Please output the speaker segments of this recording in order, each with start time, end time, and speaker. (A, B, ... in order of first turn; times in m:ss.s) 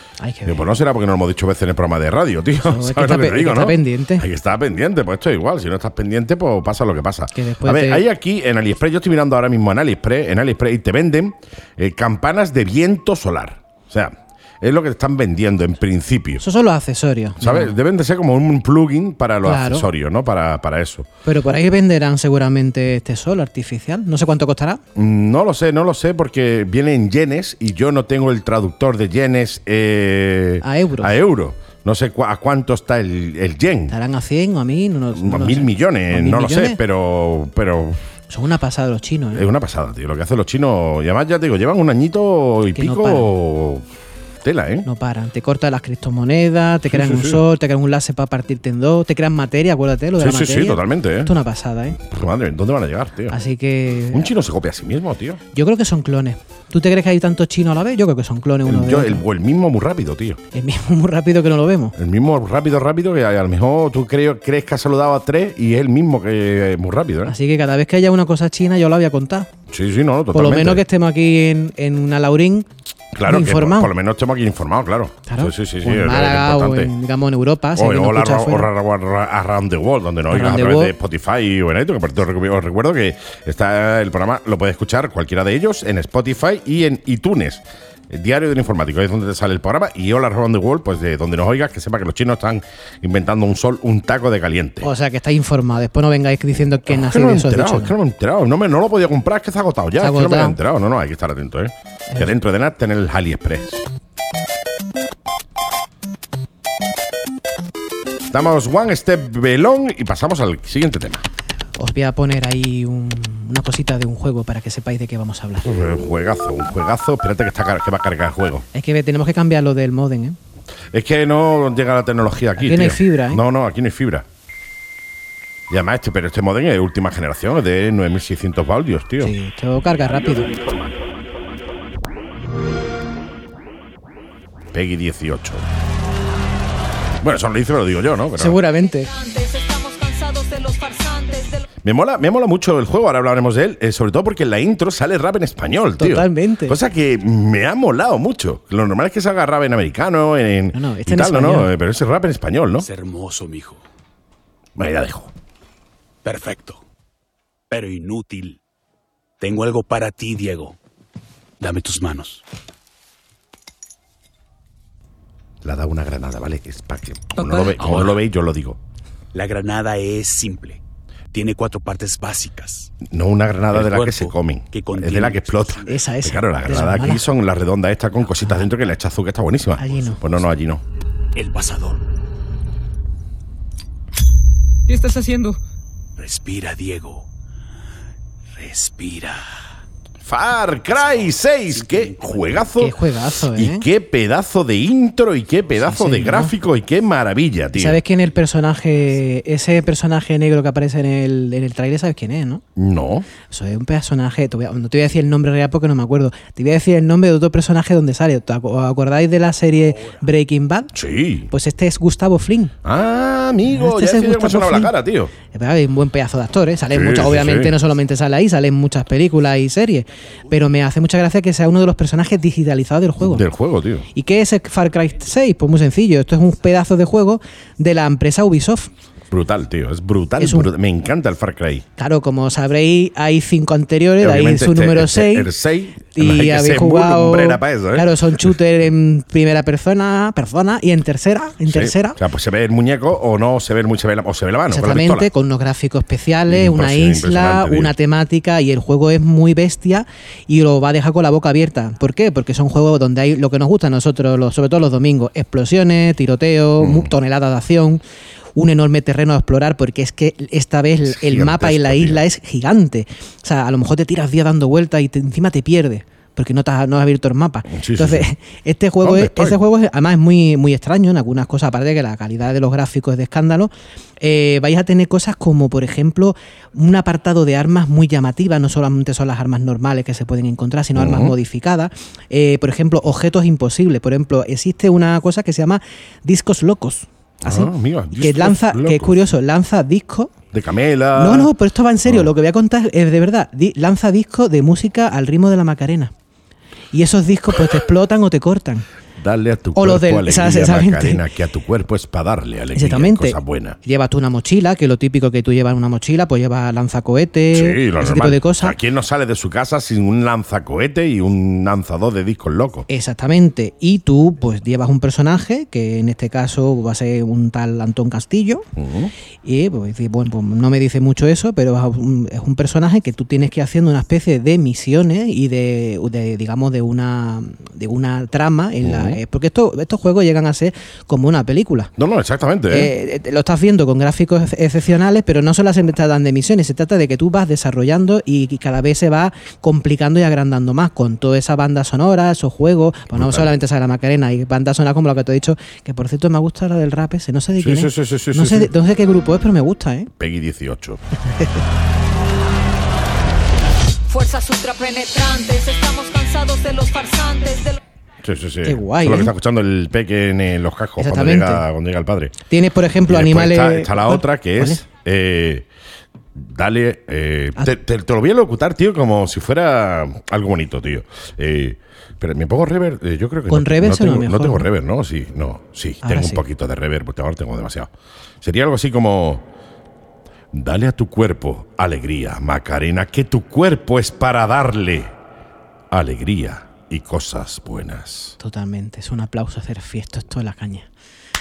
0:00.2-0:00.6 A
0:00.4-0:16.4 B
0:02.6-0:04.2 A
0:07.3-0:08.0 A
0:16.4-0:17.8 A
0:17.4-0:21.1 B
0:19.4-0:19.9 A
0:21.2-0:24.8 A
0:25.0-0:34.0 B
0:30.6-0:31.2 A
0:33.9-0:36.8 A
0:35.1-0:38.0 B
0:38.3-0:39.4 A
0:39.3-0:43.8 B
0:42.7-0:43.3 A
0:44.4-0:44.9 B
0:44.8-0:52.0 A
0:46.9-0:47.4 B
0:50.2-0:51.3 B
0:52.0-0:53.4 B
0:53.3-0:54.3 A
0:54.1-0:55.4 B
0:55.5-0:59.2 A
0:58.6-1:00.4 B
1:00.5-1:02.0 A
1:02.0-1:07.3 B
1:07.2-1:09.5 A
1:09.7-1:10.8 B
1:10.3-1:12.7 A
1:13.1-1:16.9 B
1:13.2-1:13.9 A
1:15.3-1:18.7 A
1:17.8-1:34.9 B
1:20.3-1:20.9 A
1:34.8-1:37.9 A
1:36.9-1:43.8 B
1:40.0-1:40.6 A
1:48.3-1:51.2 B
1:51.8-1:55.7 A
1:55.6-1:58.6 B
1:58.7-2:00.4 A
2:00.9-2:04.2 B
2:02.6-2:03.4 A
2:05.7-2:09.4 B
2:09.2-2:10.5 A
2:10.0-2:11.1 B
2:14.7-2:15.6 B
2:17.2-2:18.6 B
2:18.4-2:19.1 A
2:18.8-2:21.6 C
2:21.8-2:32.9 B
2:26.0-2:26.8 A
2:30.7-2:31.7 A
2:32.8-2:33.8 D
2:34.8-2:35.3 B
2:36.2-2:36.8 D
2:37.7-2:38.6 D
2:39.4-2:40.8 D
2:41.6-2:42.4 D
2:45.6-2:48.8 B
2:47.5-2:48.2 D
2:49.3-2:50.8 D
2:51.3-2:53.0 D
2:53.0-3:00.8 B
2:53.7-2:56.0 D
2:55.9-2:57.2 A
2:59.8-3:00.2 A
3:01.3-3:02.0 D
3:04.9-3:05.6 C
3:06.2-3:07.3 D
3:08.6-3:09.4 D
3:10.2-3:18.0 B
3:11.0-3:12.7 D
3:12.8-3:13.9 A
3:15.8-3:16.5 A
3:17.8-3:22.6 A
3:22.8-3:23.3 B
3:23.5-3:30.9 A
3:30.9-3:31.5 B
3:31.5-3:32.7 A
3:32.8-3:35.3 B
3:33.7-3:34.9 A
3:35.5-3:43.5 A
3:36.9-3:37.8 B
3:43.2-3:44.1 B
3:44.1-3:48.9 A
3:49.3-3:51.8 B
3:50.4-3:50.7 A
3:52.0-3:55.5 A
3:54.2-3:58.1 B
3:56.1-4:02.2 A
4:01.7-4:05.3 B
4:04.7-4:18.0 A
4:06.5-4:08.0 B
4:16.8-4:17.1 B
4:18.6-4:50.3 A
4:21.1-4:22.2 B
4:27.7-4:28.3 B
4:29.0-4:29.6 B
4:41.0-4:41.4 B
4:47.4-4:49.2 B
4:50.5-4:51.5 B
4:51.1-4:56.1 A
4:52.0-4:52.3 B
4:56.9-4:58.9 A
4:59.2-5:03.8 B
4:59.8-5:01.2 A
5:02.8-5:08.8 A
5:07.5-5:12.9 B
5:12.9-5:18.6 A
5:18.8-5:19.1 B
5:19.4-5:31.9 A
5:28.8-5:29.2 B
5:32.0-5:32.9 B
5:32.7-5:50.1 A
5:43.1-5:43.5 B
5:47.6-5:48.7 B
5:50.2-5:51.0 B
5:51.3-5:51.6 A
5:54.1-5:57.8 C
5:58.2-6:02.4 B
5:58.6-5:59.3 A
6:01.0-6:01.6 A
6:02.5-6:04.8 A
6:03.0-6:05.6 B
6:06.4-6:17.9 B
6:13.5-6:14.7 A
6:16.0-6:16.4 A
6:18.4-6:19.4 B
6:20.5-6:25.1 B
6:25.9-6:28.4 B
6:28.4-6:30.9 A